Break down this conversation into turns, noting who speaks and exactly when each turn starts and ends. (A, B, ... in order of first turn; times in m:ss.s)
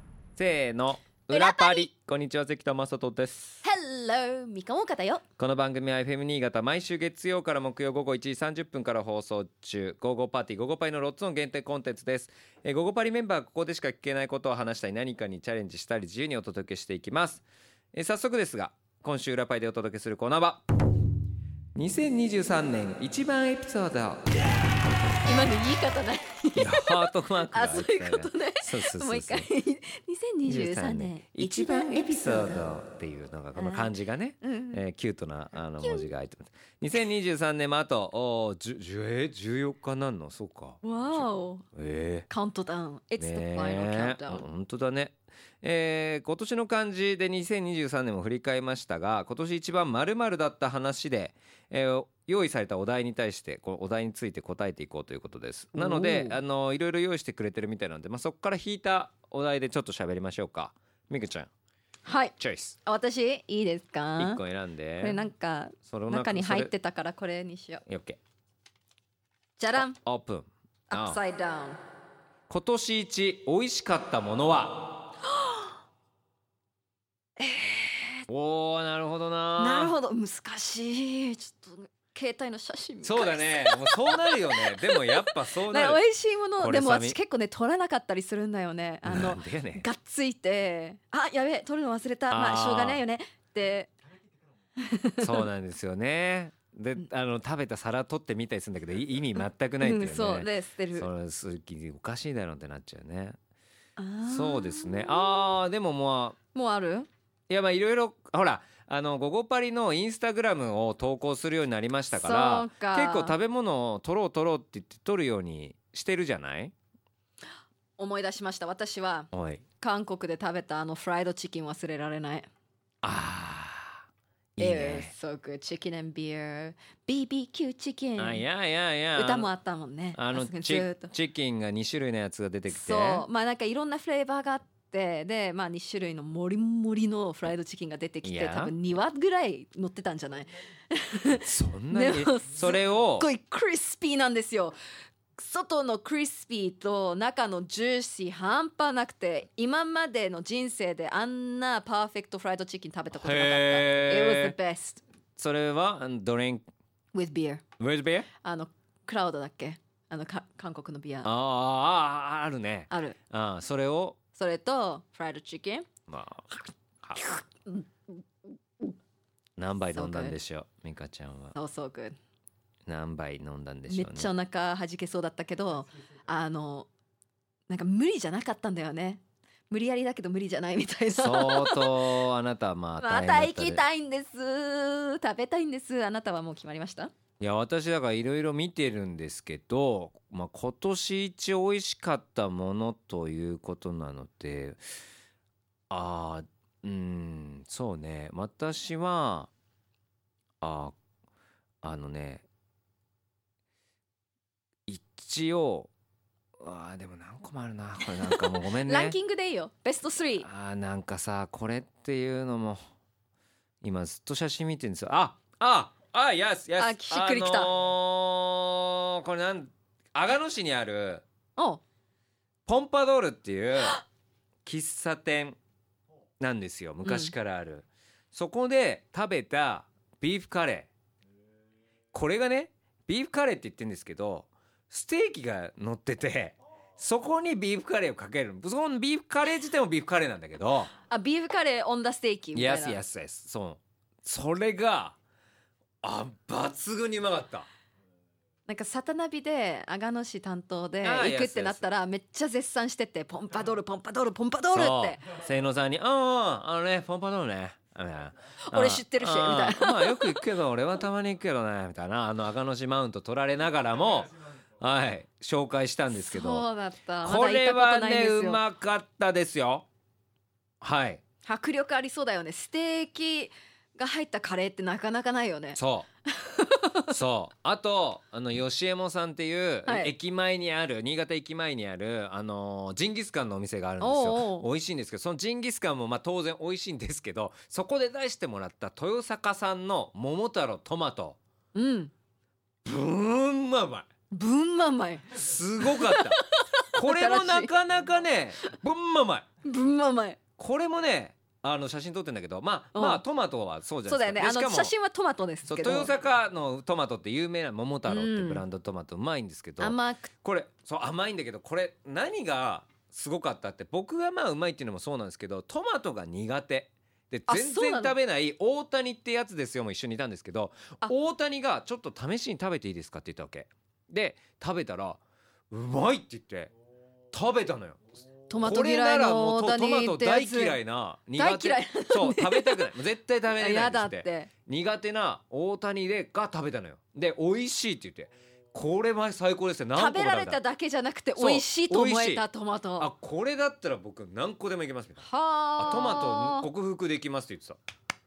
0:00.4-0:03.6 A
0:01.3-0:01.9 B
0:03.6-0:05.2 B
0:05.4-0:20.6 A
0:21.8-0:24.5 A
0:25.2-0:32.6 B
0:26.6-0:29.5 A
0:30.4-0:42.3 A
0:33.6-0:34.8 B
0:35.8-0:36.1 B
0:40.8-0:41.6 B
0:42.3-0:44.5 B
0:43.2-1:01.5 A
0:55.8-0:56.4 B
1:02.0-1:04.4 B
1:02.4-1:02.8 A
1:04.2-1:05.2 A
1:05.0-1:07.8 B
1:05.9-1:06.7 A
1:07.9-1:08.2 A
1:09.6-1:10.0 B
1:09.8-1:11.2 A
1:10.9-1:11.8 B
1:12.5-1:14.9 A
1:15.3-1:15.7 B
1:17.4-1:18.2 B
1:18.3-1:20.0 A
1:19.6-1:33.9 B
1:23.0-1:26.0 A
1:26.6-1:27.2 A
1:29.0-1:29.8 A
1:32.3-1:33.0 A
1:34.8-1:35.4 B
1:35.2-1:43.4 A
1:39.8-1:41.1 B
1:44.0-1:45.5 B
1:44.2-1:46.4 A
1:46.5-1:47.1 B
1:47.5-1:56.7 A
1:52.1-1:53.4 B
1:58.0-2:02.5 B
1:59.3-1:59.6 A
2:03.0-2:04.0 A
2:04.6-2:05.1 A
2:04.6-2:08.5 B
2:08.2-2:09.5 A
2:09.1-2:11.1 B
2:10.1-2:13.3 A
2:12.7-2:24.8 B
2:18.2-2:18.7 A
2:21.4-2:23.3 A
2:25.4-2:35.0 B
2:33.1-2:34.5 A
2:35.4-2:36.6 A
2:37.1-2:37.6 B
2:37.8-2:38.3 A
2:38.4-2:41.3 B
2:41.2-2:44.2 A
2:42.9-2:43.2 B
2:44.3-2:45.9 B
2:46.1-2:46.5 A
2:47.2-2:48.1 B
2:49.6-2:51.6 A
2:49.9-2:50.4 B
2:51.6-2:52.2 B
2:52.9-2:54.3 A
2:53.9-2:56.9 B
2:57.7-3:02.1 B
3:01.2-3:03.8 A
3:03.0-3:07.1 B
3:07.4-3:14.8 A
3:15.9-3:19.5 A
3:20.6-3:21.0 A
3:21.8-3:22.5 A
3:24.9-3:25.9 A
3:26.6-3:29.2 A
3:28.1-3:30.5 B
3:30.4-3:32.8 A
3:33.8-3:41.2 A
3:36.8-3:37.7 B
3:41.6-3:41.8 B
3:42.7-3:44.0 A
3:44.7-3:45.6 A
3:46.4-3:50.9 A
3:47.0-3:47.3 B
3:52.1-4:00.9 A
4:01.1-4:03.0 B
4:02.6-4:05.2 A
4:06.0-4:07.7 A
4:08.7-4:15.2 B
4:11.0-4:11.8 A
4:14.7-4:26.7 A
4:18.7-4:20.4 B
4:26.2-4:28.6 B
4:27.2-4:29.9 A
4:30.8-4:31.2 A
4:31.4-4:37.1 B
4:35.8-4:36.1 A
4:37.1-4:51.4 A
4:39.9-4:40.1 B
4:44.0-4:44.7 B
4:51.7-4:52.1 B
4:52.8-4:54.1 A
4:54.3-4:57.7 B
4:55.3-4:56.4 A
4:57.0-4:59.5 A
4:59.6-5:00.4 B
5:00.6-5:05.0 A
5:02.9-5:03.2 B
5:04.1-5:06.1 B
5:05.7-5:26.7 A
5:08.1-5:08.6 B
5:09.8-5:10.3 B
5:17.5-5:18.2 B
5:27.3-5:28.0 A
5:28.5-5:30.8 B
5:28.6-5:40.6 A
5:31.4-5:32.9 B
5:33.5-5:34.5 B
5:39.9-5:43.1 B
5:41.4-5:42.4 A
5:43.0-5:45.3 A
5:45.2-5:46.7 B
5:45.8-5:47.8 A